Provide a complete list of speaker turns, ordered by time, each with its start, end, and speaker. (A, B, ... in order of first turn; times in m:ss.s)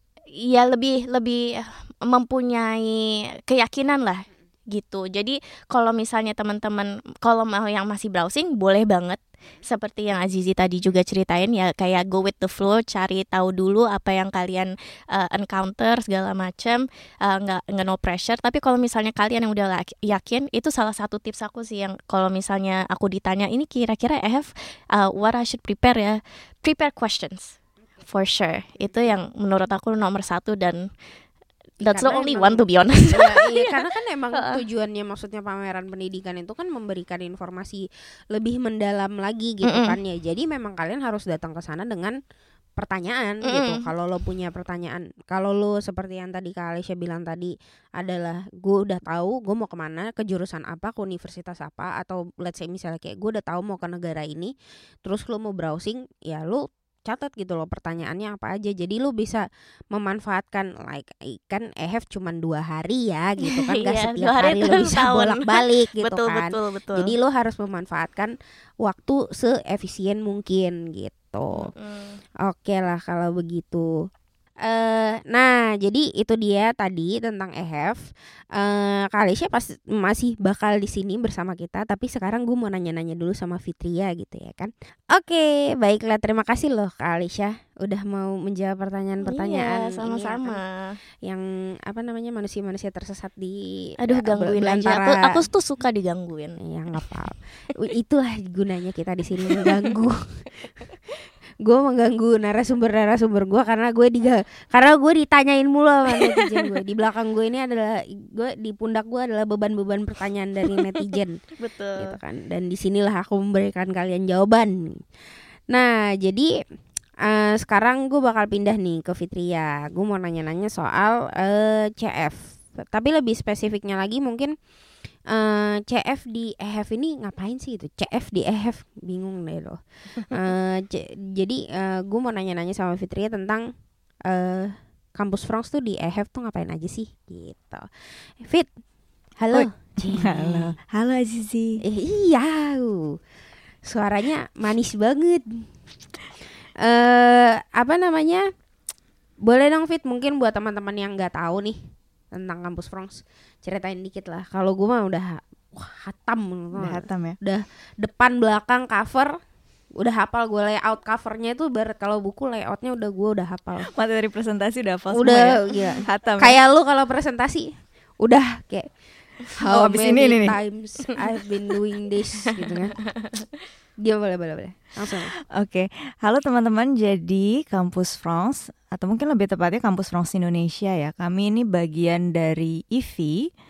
0:00.4-0:30.9 A
0:31.8-0:33.8 A
0:31.8-0:42.2 B
0:34.4-0:34.6 A
0:39.6-0:40.0 A
0:42.8-1:11.7 B
0:43.5-0:43.8 A
1:03.4-1:07.1 A
1:11.5-1:12.2 A
1:12.4-1:13.9 B
1:14.6-1:18.0 B
1:18.6-1:30.6 B
1:29.3-1:31.0 A
1:31.2-1:35.4 B
1:34.0-1:37.0 A
1:36.6-1:40.5 B
1:39.5-1:39.8 A
1:41.6-1:51.4 B
1:46.1-1:46.6 A
1:51.6-1:52.2 A
1:52.0-1:55.0 B
1:55.7-1:56.5 B
1:57.2-2:04.5 B
2:05.3-2:13.6 B
2:14.3-2:17.8 B
2:18.4-2:18.7 B
2:19.4-2:20.7 B
2:19.5-2:21.8 C
2:21.8-2:23.2 B
2:23.8-2:25.7 B
2:26.8-2:28.4 B
2:29.4-2:31.8 B
2:32.3-2:39.4 B
2:36.7-2:37.4 C
2:40.0-2:43.9 B
2:43.9-2:46.6 C
2:45.1-2:48.9 B
2:49.6-2:53.0 B
2:49.7-2:50.6 C
2:52.6-2:53.5 A
2:54.0-2:55.3 B
2:55.5-3:03.4 C